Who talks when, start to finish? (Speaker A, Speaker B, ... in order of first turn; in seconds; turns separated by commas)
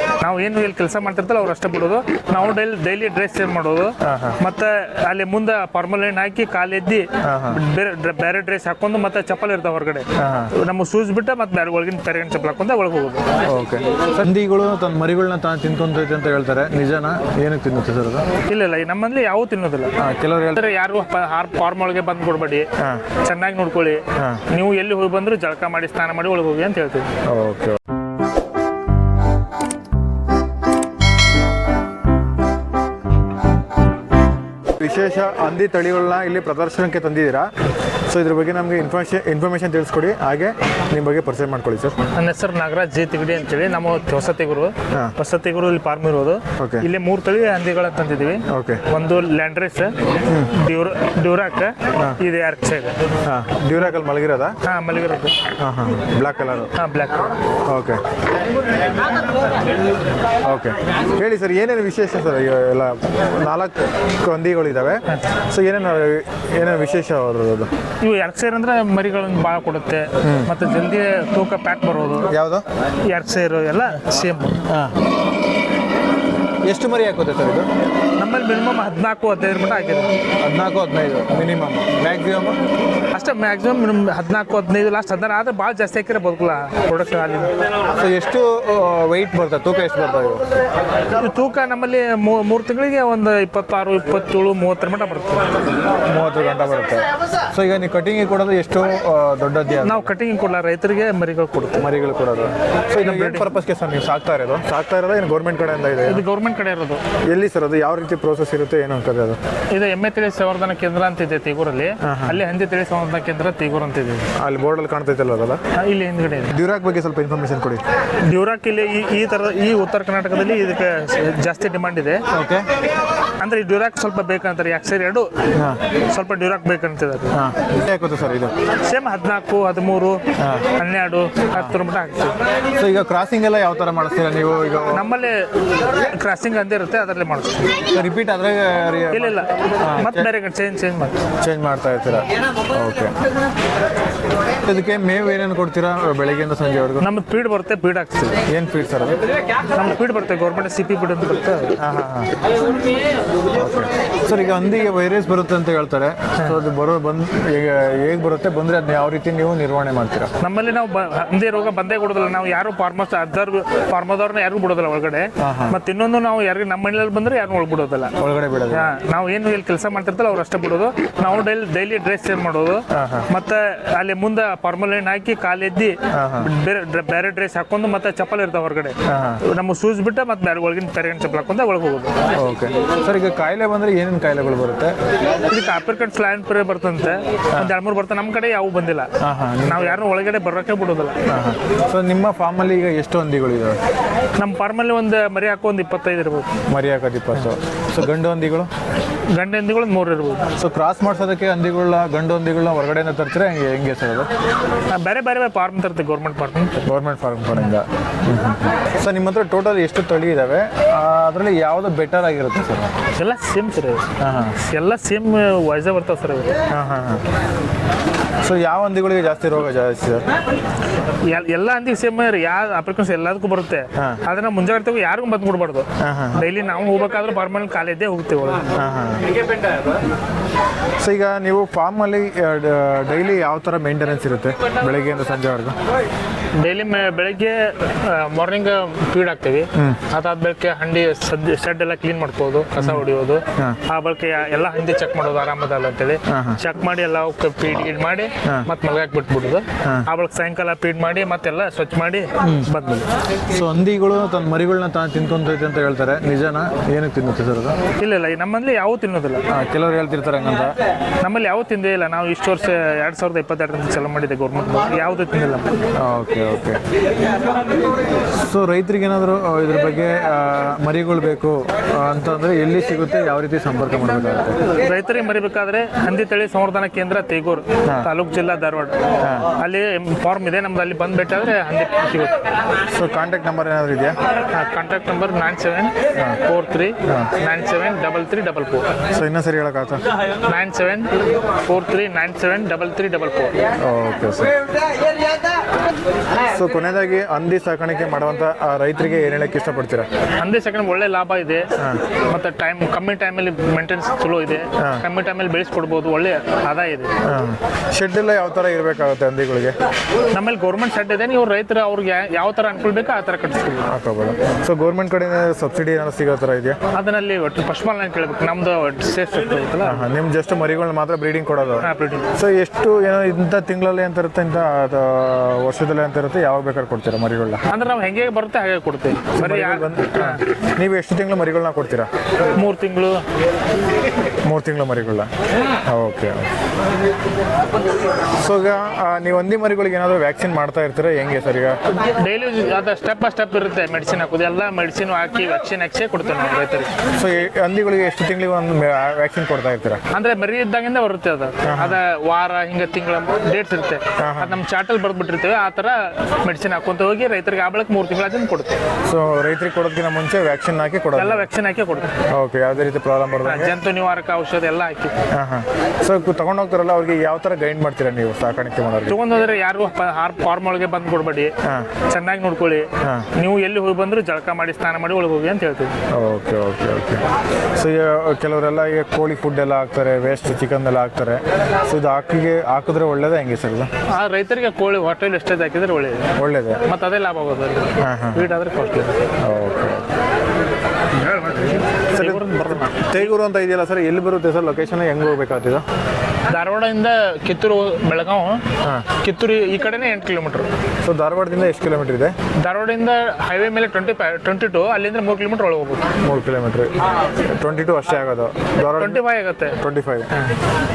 Speaker A: 0.2-13.2, Speaker B: 4.0-4.4, Speaker B: 7.2-7.6, Speaker B: 10.2-10.5, Speaker B: 13.5-18.3, Speaker A: 18.5-19.9, Speaker B: 20.0-20.6, Speaker A: 20.5-27.1, Speaker B: 22.8-23.0, Speaker B: 24.2-24.4, Speaker B: 27.3-27.8, Speaker B: 34.8-37.5, Speaker B: 38.1-42.0, Speaker A: 42.1-50.0, Speaker B: 46.6-46.9, Speaker B: 48.5-48.8, Speaker B: 50.3-50.5, Speaker A: 50.5-53.0, Speaker B: 53.2-54.6, Speaker A: 54.6-55.4, Speaker B: 55.6-56.7, Speaker A: 56.8-57.3, Speaker B: 57.7-58.0, Speaker B: 60.5-67.7, Speaker A: 68.0-72.3, Speaker B: 70.2-70.5, Speaker B: 72.3-72.7, Speaker A: 73.0-74.6, Speaker B: 74.7-75.0, Speaker B: 76.7-77.7, Speaker A: 78.2-80.1, Speaker B: 80.4-82.6, Speaker A: 83.1-87.5, Speaker B: 88.0-90.4, Speaker A: 91.1-95.6, Speaker B: 96.1-100.1, Speaker A: 99.8-101.9, Speaker B: 101.8-106.2, Speaker A: 103.0-103.5, Speaker A: 106.1-107.0, Speaker B: 107.3-109.4, Speaker A: 109.7-114.3, Speaker B: 112.0-112.4, Speaker B: 114.3-115.6, Speaker A: 115.8-116.5, Speaker B: 116.5-117.8, Speaker A: 118.2-122.2, Speaker B: 122.3-122.7, Speaker A: 123.4-125.3, Speaker B: 125.5-125.8, Speaker A: 126.1-127.4, Speaker B: 127.3-128.5, Speaker A: 128.8-130.2, Speaker B: 130.4-130.7, Speaker A: 130.8-132.4, Speaker B: 131.5-131.8, Speaker B: 132.8-135.1, Speaker A: 134.9-137.7, Speaker B: 137.9-140.3, Speaker A: 139.1-141.2, Speaker B: 141.4-143.1, Speaker B: 144.6-147.1, Speaker A: 147.0-148.4, Speaker B: 148.5-149.2, Speaker A: 149.7-151.7, Speaker B: 151.8-152.3, Speaker B: 153.5-160.3, Speaker A: 160.4-168.1, Speaker B: 165.4-165.8, Speaker B: 168.2-168.9, Speaker A: 168.7-182.1, Speaker B: 172.9-173.3, Speaker B: 176.1-176.5, Speaker B: 179.1-179.4, Speaker B: 182.4-184.9, Speaker A: 185.5-191.2, Speaker B: 189.2-190.0, Speaker B: 191.3-193.8, Speaker A: 194.4-196.5, Speaker B: 196.7-198.7, Speaker A: 199.3-200.5, Speaker B: 200.6-204.3, Speaker A: 204.9-206.7, Speaker B: 206.8-212.9, Speaker A: 213.2-214.1, Speaker B: 214.2-214.6, Speaker A: 214.6-216.5, Speaker B: 216.7-217.2, Speaker B: 218.4-220.3, Speaker A: 221.3-228.7, Speaker B: 224.0-224.2, Speaker B: 226.0-226.4, Speaker B: 228.8-229.2, Speaker B: 231.0-235.8, Speaker A: 236.6-253.1, Speaker B: 239.7-240.0, Speaker B: 242.8-243.8, Speaker B: 246.3-246.6, Speaker B: 248.4-248.7, Speaker B: 252.4-252.7, Speaker B: 253.5-257.8, Speaker A: 258.0-259.4, Speaker B: 259.5-260.8, Speaker A: 261.2-265.7, Speaker B: 266.0-266.8, Speaker B: 268.3-274.6, Speaker A: 274.8-278.9, Speaker B: 279.2-279.5, Speaker A: 279.6-282.4, Speaker B: 282.9-284.2, Speaker A: 284.5-288.9, Speaker B: 289.1-290.0, Speaker A: 290.4-291.1, Speaker A: 291.6-293.5, Speaker B: 293.8-294.6, Speaker B: 296.5-300.1, Speaker A: 300.4-307.1, Speaker B: 301.8-302.0, Speaker B: 304.8-305.0, Speaker B: 307.2-309.8, Speaker A: 310.3-313.9, Speaker B: 313.9-316.8, Speaker A: 316.9-320.0, Speaker B: 319.8-327.6, Speaker A: 321.8-322.3, Speaker A: 327.7-330.4, Speaker B: 329.4-332.1, Speaker A: 332.6-333.2, Speaker B: 334.5-335.3, Speaker B: 335.9-336.5, Speaker B: 338.4-341.8, Speaker A: 342.1-346.9, Speaker B: 347.2-350.0, Speaker A: 350.1-358.8, Speaker B: 351.6-352.0, Speaker B: 354.2-354.6, Speaker B: 359.1-361.5, Speaker A: 361.1-362.1, Speaker B: 362.3-363.8, Speaker A: 363.4-365.1, Speaker B: 365.3-369.2, Speaker A: 369.1-371.5, Speaker B: 371.6-371.9, Speaker A: 372.1-375.9, Speaker B: 373.0-373.3, Speaker B: 376.1-377.2, Speaker B: 377.8-383.9, Speaker A: 384.1-386.3, Speaker B: 386.4-386.8, Speaker A: 386.9-389.2, Speaker B: 388.0-388.5, Speaker B: 389.4-390.1, Speaker A: 391.2-393.3, Speaker B: 392.1-395.8, Speaker A: 396.5-398.6, Speaker A: 399.2-400.7, Speaker B: 401.0-402.4, Speaker A: 402.6-406.0, Speaker B: 406.2-409.2, Speaker A: 408.9-409.8, Speaker B: 409.8-410.3